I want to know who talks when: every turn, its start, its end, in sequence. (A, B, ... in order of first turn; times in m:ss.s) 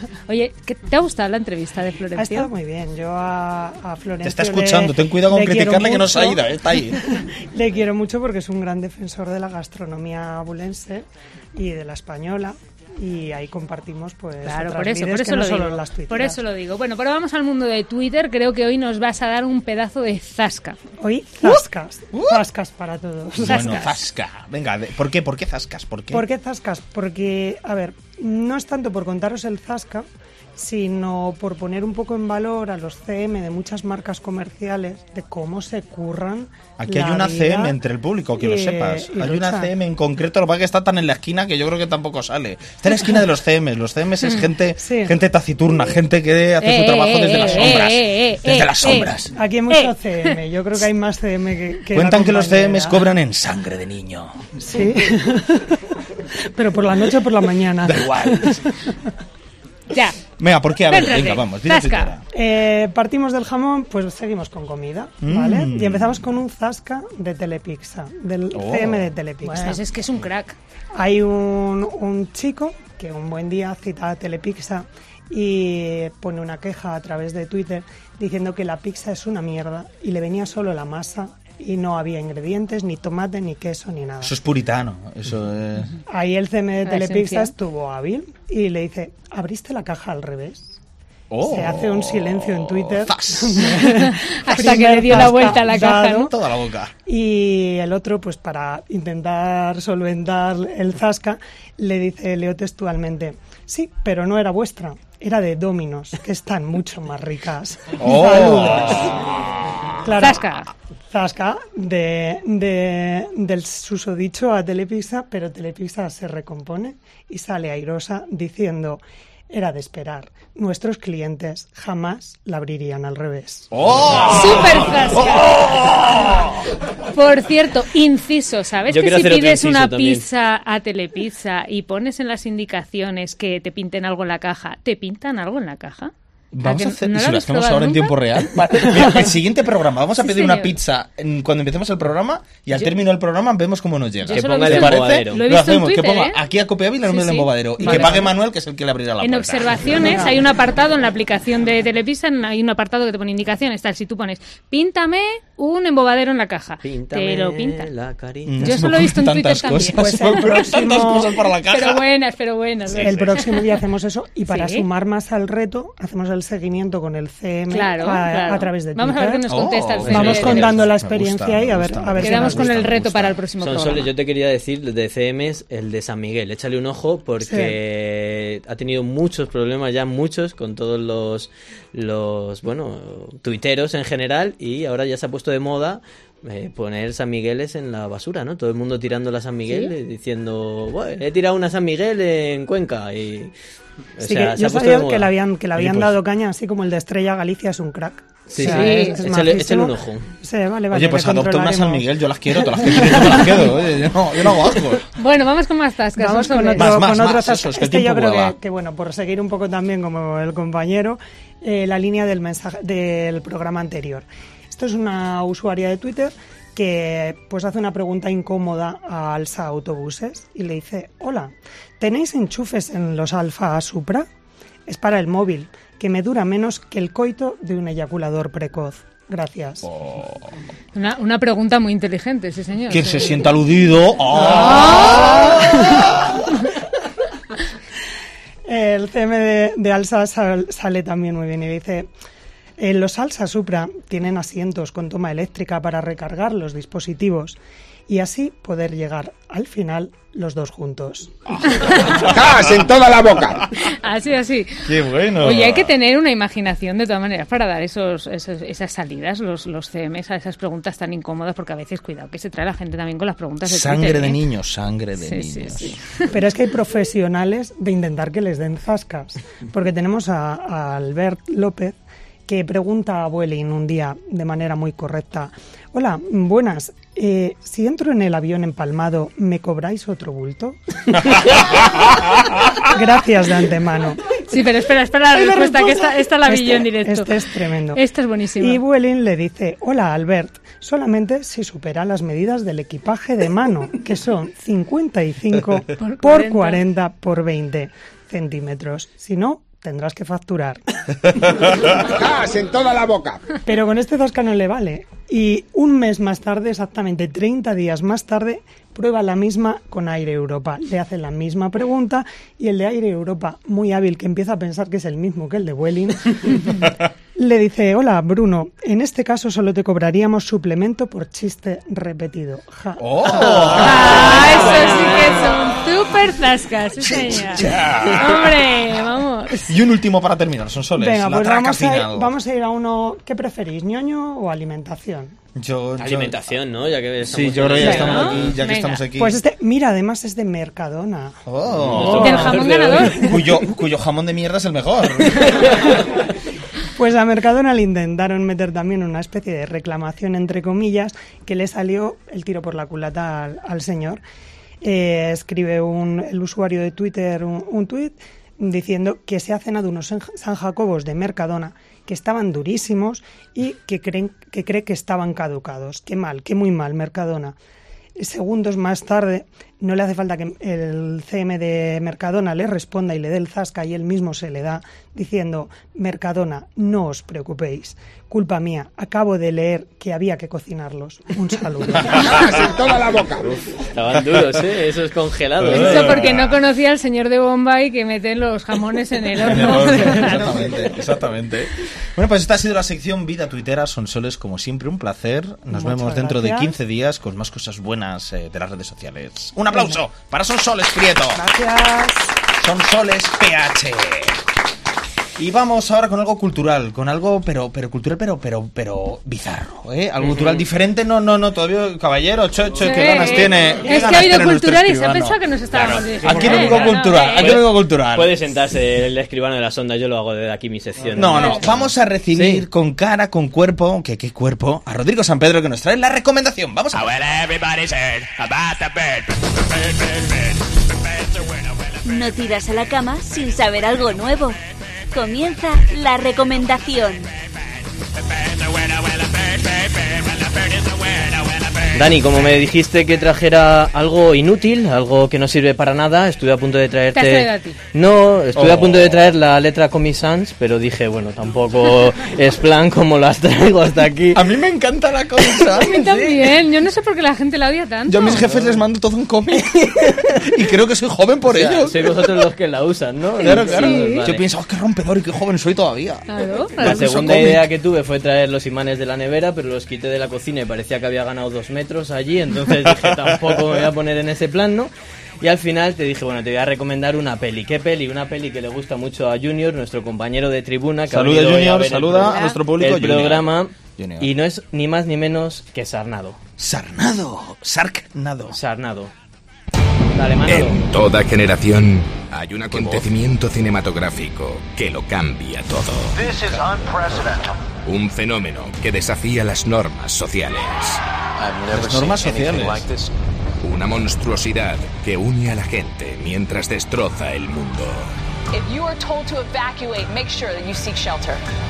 0:00.3-0:02.5 A
0:02.2-0:16.4 B
0:04.2-0:07.0 C
0:14.4-0:20.8 A
0:21.0-0:23.9 B
0:21.4-0:22.4 C
0:23.4-0:26.2 C
0:23.4-0:23.9 A
0:26.1-0:37.8 B
0:36.8-0:49.3 C
0:38.3-0:39.7 B
0:44.8-0:45.2 B
0:46.6-0:49.1 A
0:49.4-0:53.0 B
0:49.7-0:50.3 A
0:51.9-0:54.4 C
0:54.6-0:55.8 B
0:56.5-0:58.7 B
0:57.8-0:58.7 C
0:59.9-1:00.2 A
1:00.4-1:02.2 C
1:00.9-1:02.1 A
1:02.3-1:09.8 B
1:05.2-1:06.2 C
1:08.5-1:09.1 C
1:09.4-1:10.6 A
1:11.0-1:24.4 B
1:24.2-1:26.0 C
1:26.1-1:30.8 B
1:26.8-1:27.5 A
1:31.3-1:33.9 C
1:31.4-1:36.3 B
1:33.8-1:36.3 A
1:35.1-1:36.9 C
1:37.1-1:49.2 B
1:48.0-1:49.2 C
1:50.0-1:50.5 B
1:50.2-1:50.7 A
1:51.1-2:03.7 B
2:03.7-2:06.5 C
2:04.3-2:05.6 A
2:07.1-2:16.1 A
2:08.9-2:10.3 D
2:16.5-2:30.2 C
2:16.6-2:18.2 A
2:20.2-2:20.7 A
2:24.2-2:26.4 A
2:24.3-2:25.4 D
2:27.1-2:28.3 A
2:29.2-2:37.9 A
2:36.8-2:38.7 D
2:38.5-2:42.0 C
2:38.6-2:40.6 A
2:39.9-2:41.3 B
2:41.7-2:43.6 A
2:42.9-2:43.5 C
2:43.0-2:49.4 B
2:44.5-2:44.9 A
2:47.7-2:50.9 A
2:49.5-2:53.4 C
2:50.1-2:50.6 D
2:50.1-2:52.8 B
2:52.2-2:54.1 A
2:53.6-3:13.5 D
2:57.4-2:57.8 B
3:09.7-3:09.9 A
3:14.2-3:16.1 D
3:14.2-3:22.1 B
3:18.5-3:20.3 D
3:18.6-3:19.2 A
3:20.9-3:25.0 C
3:22.8-3:23.5 B
3:25.2-3:27.0 A
3:26.2-3:44.3 B
3:26.8-3:28.6 C
3:44.9-3:49.9 B
3:49.9-3:50.5 C
3:50.9-3:53.4 A
3:52.9-3:56.2 C
3:54.4-3:55.5 A
3:58.7-4:02.1 B
4:02.8-4:11.4 B
4:11.8-4:12.2 A
4:12.3-4:13.6 E
4:13.8-4:24.4 A
4:14.9-4:15.9 C
4:23.7-4:26.0 C
4:25.2-4:26.3 A
4:26.3-4:32.0 B
4:32.5-4:41.5 B
4:42.8-4:44.4 B
4:44.5-4:47.4 A
4:45.3-4:48.0 B
4:47.9-4:48.8 A
4:48.6-5:00.8 B
4:56.0-4:56.8 A
5:02.0-5:03.4 E
5:03.6-5:23.4 B
5:23.0-5:25.0 C
5:23.5-5:24.9 D
5:23.8-5:29.6 A
5:27.1-5:28.6 C
5:29.7-5:32.3 C
5:31.0-5:35.4 B
5:35.6-5:36.5 C
5:36.0-5:38.6 D
5:37.2-5:39.4 C
5:37.8-5:39.0 A
5:39.2-5:41.4 B
5:41.5-5:45.7 C
5:41.7-5:43.1 D
5:42.2-5:43.3 A
5:47.0-5:54.2 B
5:54.8-6:07.6 B
6:08.2-6:22.3 B
6:22.2-6:23.5 E
6:23.9-6:26.3 D
6:25.6-6:26.5 C
6:25.7-6:30.5 A
6:29.4-6:41.4 C
6:35.7-6:36.8 B
6:39.7-6:40.0 B
6:41.4-6:42.3 B
6:42.6-6:44.4 C
6:45.4-6:58.4 C
6:50.2-6:50.7 D
6:52.8-6:57.6 A
6:55.8-7:02.6 D
7:01.1-7:07.3 C
7:07.5-7:09.2 F
7:12.0-7:14.6 G
7:15.1-7:17.3 G
7:21.9-7:34.4 D
7:27.1-7:27.8 A
7:28.6-7:29.2 C
7:34.3-7:36.2 C
7:35.8-7:38.5 A
7:36.0-7:36.4 D
7:38.1-7:42.4 C
7:38.3-7:38.8 D
7:39.5-7:40.6 D
7:41.5-7:44.4 D
7:43.4-7:47.7 C
7:43.5-7:44.3 A
7:46.3-7:47.2 A
7:46.8-8:06.4 D
8:01.1-8:04.3 C
8:02.2-8:02.6 A
8:06.6-8:08.6 C
8:08.5-8:09.1 D
8:10.2-8:10.8 D
8:10.5-8:16.3 F
8:12.7-8:13.0 C
8:17.9-8:23.1 F
8:21.7-8:22.8 C
8:23.6-8:28.1 F
8:28.5-8:31.4 H